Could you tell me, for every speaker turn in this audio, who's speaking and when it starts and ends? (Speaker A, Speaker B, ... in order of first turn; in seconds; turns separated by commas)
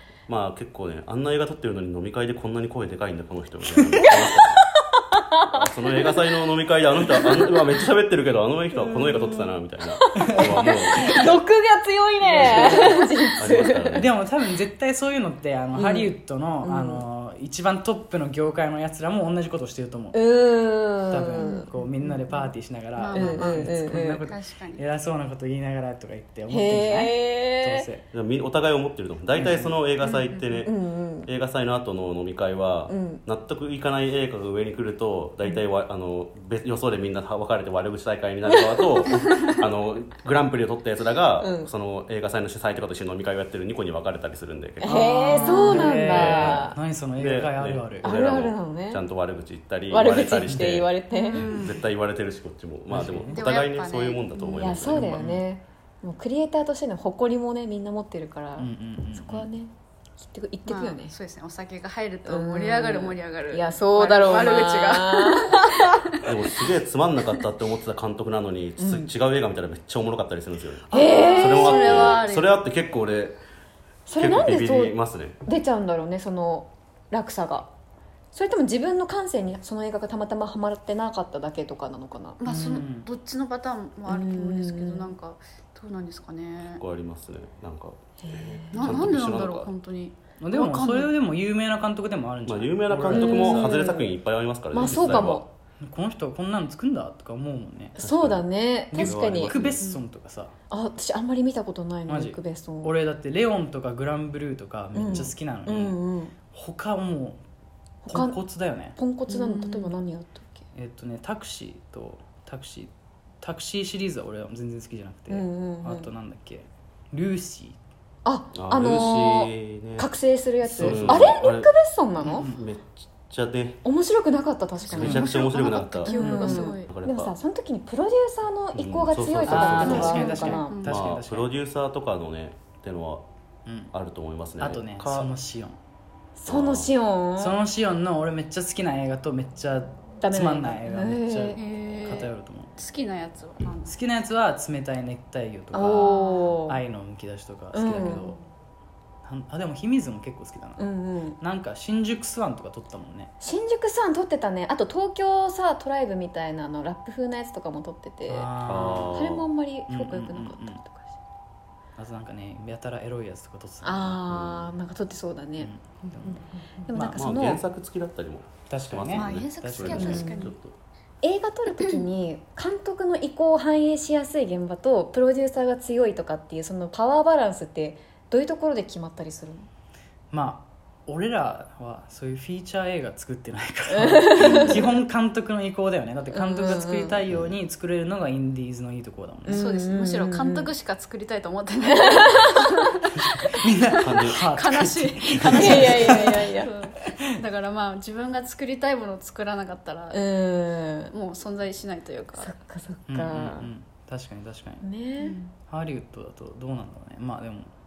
Speaker A: 0.3-4.6, Speaker B: 3.6-4.2, Speaker C: 4.0-6.2, Speaker A: 5.5-11.2, Speaker C: 7.2-7.6, Speaker B: 8.7-9.5, Speaker C: 9.9-14.1, Speaker B: 10.1-11.3, Speaker B: 12.2-13.3, Speaker A: 12.3-14.1, Speaker B: 13.9-28.1, Speaker C: 15.8-17.1, Speaker C: 20.1-22.3, Speaker D: 23.0-24.8, Speaker C: 23.1-24.2, Speaker C: 26.5-27.9, Speaker A: 28.1-30.7, Speaker B: 29.4-29.7, Speaker D: 30.0-30.7, Speaker C: 30.7-31.3, Speaker A: 31.3-45.1, Speaker C: 32.9-33.2, Speaker C: 38.5-39.1, Speaker C: 41.4-41.7, Speaker C: 44.8-46.8, Speaker B: 44.8-48.1, Speaker A: 46.0-46.5, Speaker A: 47.2-50.9, Speaker C: 48.0-49.0, Speaker C: 49.9-51.6, Speaker B: 50.4-50.9, Speaker D: 51.1-51.9, Speaker A: 51.5-55.2, Speaker B: 52.9-53.4, Speaker D: 53.3-54.8, Speaker C: 54.6-61.1, Speaker B: 54.8-55.5, Speaker B: 58.6-59.5, Speaker D: 60.7-66.0, Speaker C: 62.3-66.0, Speaker A: 66.3-73.4, Speaker C: 68.8-69.1, Speaker C: 70.9-72.0, Speaker D: 70.9-72.6, Speaker C: 74.1-77.7, Speaker A: 74.2-75.4, Speaker C: 78.3-82.4, Speaker D: 82.4-86.8, Speaker B: 82.4-83.1, Speaker C: 84.1-85.1, Speaker A: 86.7-89.7, Speaker C: 88.2-88.9, Speaker D: 88.7-91.1, Speaker B: 90.4-93.8, Speaker A: 92.5-95.4, Speaker C: 93.1-94.1, Speaker D: 93.5-93.9, Speaker C: 94.7-95.4, Speaker B: 94.8-98.0, Speaker A: 98.0-99.8, Speaker C: 98.0-99.8, Speaker B: 98.9-100.5, Speaker D: 99.8-100.0, Speaker C: 100.7-102.9, Speaker B: 102.1-107.4, Speaker C: 104.9-106.3, Speaker C: 108.0-108.4, Speaker B: 108.1-109.0, Speaker C: 109.0-110.6, Speaker D: 109.3-110.0, Speaker B: 110.7-117.8, Speaker C: 115.3-116.1, Speaker C: 118.2-122.5, Speaker A: 118.5-120.1, Speaker B: 120.6-121.4, Speaker A: 120.8-121.7, Speaker B: 122.2-122.7, Speaker A: 122.4-123.8, Speaker C: 123.8-130.8, Speaker D: 124.8-126.9, Speaker A: 124.9-127.3, Speaker B: 126.1-126.7, Speaker A: 128.7-133.2, Speaker B: 129.5-131.6, Speaker D: 129.9-131.0, Speaker B: 133.7-133.9, Speaker A: 133.9-135.3, Speaker B: 134.6-135.8, Speaker C: 136.4-137.6, Speaker A: 136.5-136.9, Speaker B: 137.4-142.7, Speaker C: 140.2-141.6, Speaker D: 141.6-144.0, Speaker B: 143.9-148.4, Speaker C: 145.7-146.8, Speaker D: 145.9-146.6, Speaker C: 147.7-148.2, Speaker D: 147.9-148.4, Speaker B: 149.2-153.3, Speaker C: 150.8-151.4, Speaker C: 153.4-158.5, Speaker B: 158.3-159.2, Speaker A: 158.7-159.5, Speaker C: 159.1-161.1, Speaker B: 159.9-160.9, Speaker B: 162.0-164.4, Speaker C: 163.8-165.7, Speaker A: 164.4-164.7, Speaker B: 165.6-167.2, Speaker D: 166.0-166.9, Speaker C: 166.4-167.6, Speaker A: 167.2-170.8, Speaker B: 168.6-170.4, Speaker D: 169.1-170.6, Speaker C: 169.9-170.5, Speaker C: 171.2-179.7, Speaker B: 180.3-189.8, Speaker C: 183.9-184.8, Speaker A: 184.4-184.8, Speaker C: 186.3-187.2, Speaker A: 187.3-187.5, Speaker C: 189.4-190.7, Speaker D: 189.5-200.2, Speaker C: 192.0-192.6, Speaker B: 193.2-197.3, Speaker A: 194.0-194.4, Speaker A: 195.4-195.8, Speaker C: 195.6-196.7, Speaker C: 200.1-201.1, Speaker D: 201.1-202.6, Speaker C: 202.4-203.7, Speaker B: 203.1-204.8, Speaker C: 204.8-205.4, Speaker D: 205.2-205.5, Speaker B: 205.5-207.7